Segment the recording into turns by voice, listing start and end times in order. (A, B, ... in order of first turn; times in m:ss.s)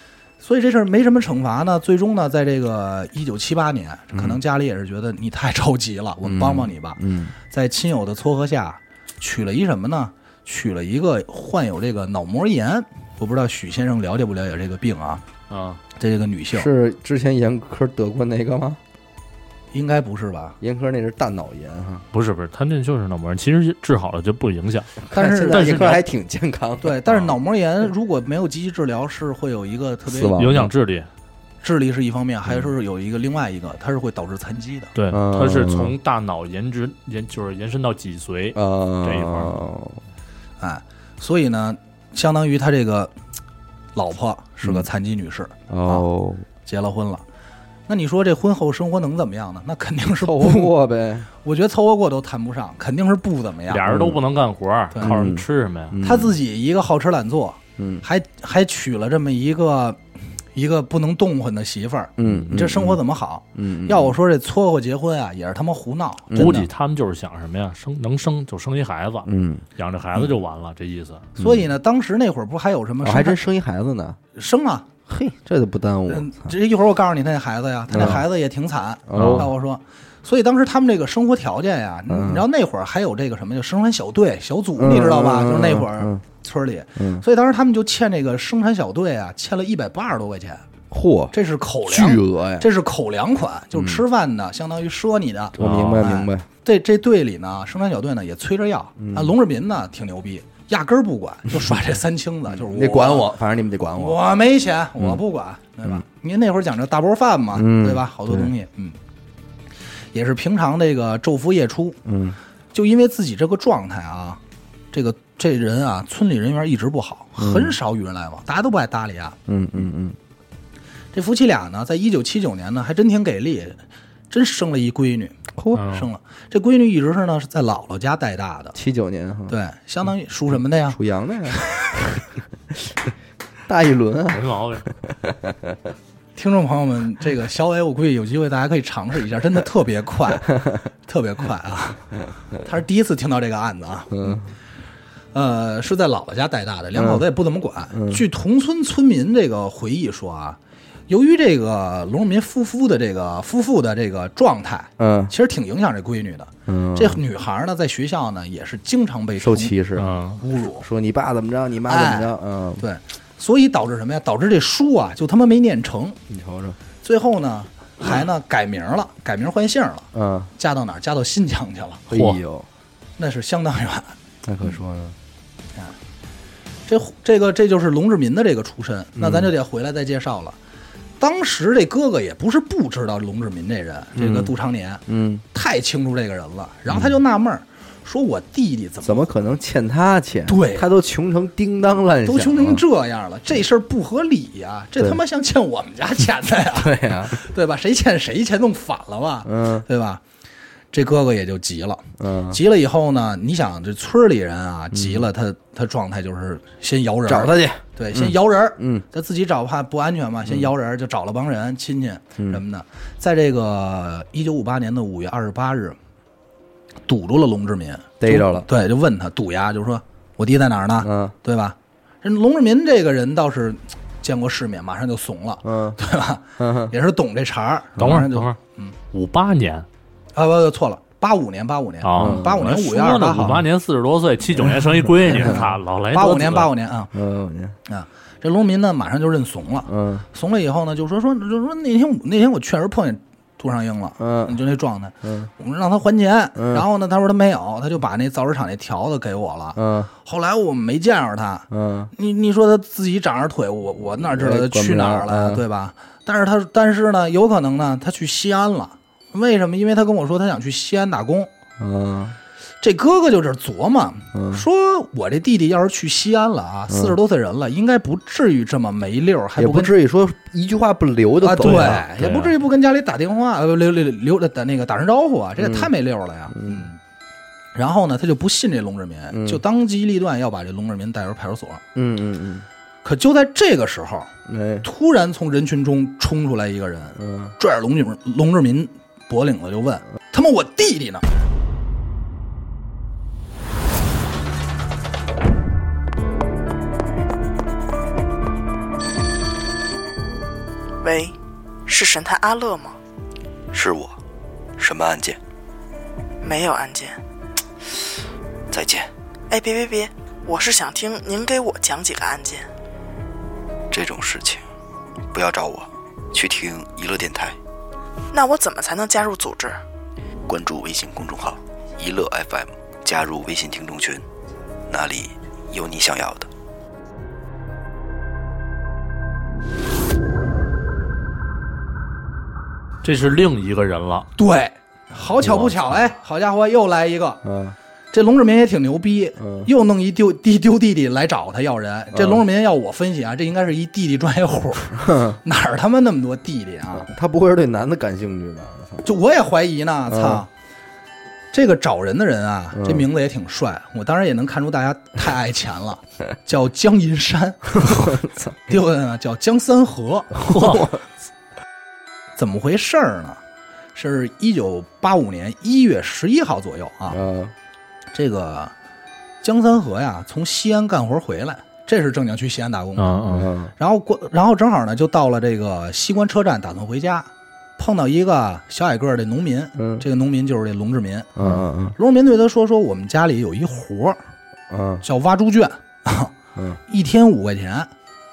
0:00.4-0:15.2 A
0:06.3-0:07.3 B
0:15.5-0:15.8 C
0:16.0-0:16.7 A
0:16.5-0:18.8 B
0:19.7-0:20.6 A
0:20.6-0:22.0 B
0:22.1-0:26.0 C
0:25.1-0:27.3 B
0:25.1-0:25.8 A
0:26.8-0:30.5 A
0:30.1-0:30.7 B
0:30.4-0:31.1 C
0:31.6-0:34.9 A
0:35.0-0:39.6 C
0:35.1-0:36.0 B
0:38.5-0:40.0 B
0:40.6-0:43.1 A
0:44.0-0:46.0 A
0:45.7-0:46.4 B
0:46.7-0:47.2 A
0:47.9-0:50.7 A
0:50.2-0:51.3 B
0:51.4-0:53.9 A
0:53.7-0:56.0 C
0:53.9-0:54.2 B
0:55.0-0:56.4 B
0:56.0-1:00.0 A
0:57.8-0:58.0 B
1:00.6-1:06.7 A
1:02.2-1:03.0 B
1:03.6-1:04.2 B
1:06.3-1:06.7 B
1:06.4-1:11.3 C
1:09.2-1:09.6 B
1:11.4-1:11.7 B
1:11.4-1:13.4 A
1:13.0-1:14.2 B
1:14.4-1:14.9 A
1:15.1-1:16.5 B
1:16.1-1:30.6 A
1:17.9-1:18.2 B
1:19.1-1:19.5 B
1:19.1-1:19.5 C
1:22.1-1:22.4 B
1:24.8-1:26.2 B
1:27.0-1:27.2 B
1:30.9-1:31.3 B
1:31.3-1:43.3 A
1:31.9-1:32.7 B
1:33.8-1:34.0 B
1:35.6-1:36.5 B
1:35.6-1:36.1 C
1:39.0-1:39.3 B
1:42.5-1:44.2 B
1:44.0-1:49.0 A
1:47.6-1:48.5 B
1:50.1-1:52.0 A
1:52.0-1:52.4 B
1:52.7-1:54.4 A
1:54.9-1:59.4 A
1:57.4-1:57.8 B
1:59.5-2:00.2 B
2:01.1-2:05.4 A
2:05.6-2:05.9 B
2:05.7-2:06.1 C
2:05.9-2:08.8 A
2:08.7-2:09.6 B
2:09.5-2:11.0 A
2:10.9-2:12.0 B
2:11.5-2:12.1 A
2:12.7-2:13.0 B
2:13.7-2:15.9 B
2:14.3-2:14.9 C
2:16.4-2:20.5 A
2:21.1-2:24.4 A
2:24.1-2:24.5 B
2:25.3-2:30.6 A
2:27.0-2:27.2 B
2:27.9-2:28.2 B
2:31.1-2:39.8 A
2:35.0-2:35.3 B
2:36.7-2:37.2 B
2:39.4-2:40.1 B
2:40.0-2:40.4 C
2:40.4-2:40.8 A
2:40.8-2:42.8 B
2:41.9-2:46.2 A
2:46.3-2:46.8 B
2:47.0-2:52.1 A
2:50.1-2:50.5 B
2:52.1-2:52.7 B
2:52.1-2:52.4 C
2:53.2-2:54.1 A
2:54.4-2:55.2 B
2:56.9-3:00.6 A
2:59.2-2:59.5 B
3:01.2-3:05.0 A
3:04.2-3:04.5 B
3:05.1-3:05.4 B
3:05.5-3:09.3 A
3:06.9-3:07.2 B
3:09.0-3:12.8 B
3:10.5-3:10.9 A
3:12.2-3:20.2 A
3:16.7-3:17.4 B
3:19.4-3:19.9 B
3:20.9-3:36.0 A
3:22.2-3:22.6 B
3:24.9-3:25.3 B
3:27.3-3:29.0 B
3:37.1-3:48.9 A
3:38.2-3:38.7 B
3:41.0-3:41.4 B
3:45.6-3:46.0 B
3:46.6-3:46.9 B
3:48.0-3:48.6 C
3:49.1-3:49.9 C
3:50.4-3:53.6 A
3:52.0-3:56.7 C
3:52.2-3:52.6 B
3:55.2-3:57.1 A
3:55.2-3:55.6 B
3:57.1-3:57.8 B
3:57.9-4:21.5 A
3:59.9-4:00.3 B
4:04.2-4:04.6 B
4:05.2-4:05.5 B
4:06.6-4:06.8 B
4:09.8-4:10.1 B
4:11.7-4:12.1 B
4:14.3-4:15.6 B
4:21.8-4:22.4 B
4:22.8-4:29.9 A
4:24.3-4:24.7 B
4:26.9-4:27.2 B
4:29.6-4:32.0 B
4:31.4-4:37.0 A
4:31.6-4:32.6 C
4:35.6-4:35.9 B
4:36.5-4:36.9 B
4:37.8-4:41.8 A
4:39.3-4:39.6 B
4:42.0-4:42.7 B
4:43.0-4:51.2 A
4:44.5-4:44.9 B
4:47.2-4:47.6 B
5:01.0-5:03.0 D
5:03.7-5:04.2 E
5:04.8-5:05.4 E
5:06.4-5:07.2 D
5:08.7-5:09.1 E
5:09.5-5:12.7 D
5:13.9-5:14.6 E
5:15.3-5:17.6 E
5:18.3-5:19.8 D
5:20.5-5:24.2 E
5:24.9-5:26.5 E
5:33.0-5:34.3 C
5:34.4-5:37.4 A
5:35.4-5:35.7 B
5:37.4-5:37.8 B
5:38.1-5:47.1 A
5:39.4-5:39.7 B
5:42.1-5:42.4 B
5:45.0-5:45.4 B
5:46.9-5:49.0 B
5:49.0-5:50.5 A
5:50.1-5:50.4 B
5:51.5-6:00.4 A
5:52.8-5:53.1 B
5:57.8-5:58.5 B
6:00.4-6:00.9 C
6:00.5-6:01.0 B
6:02.4-6:03.4 A
6:04.0-6:07.2 A
6:07.1-6:07.5 B
6:08.1-6:08.7 A
6:09.4-6:21.3 A
6:13.0-6:13.5 C
6:13.3-6:13.7 B
6:19.8-6:20.0 B
6:21.4-6:22.0 B
6:22.0-6:24.2 A
6:24.7-6:25.0 B
6:25.0-6:26.3 A
6:26.9-6:27.9 A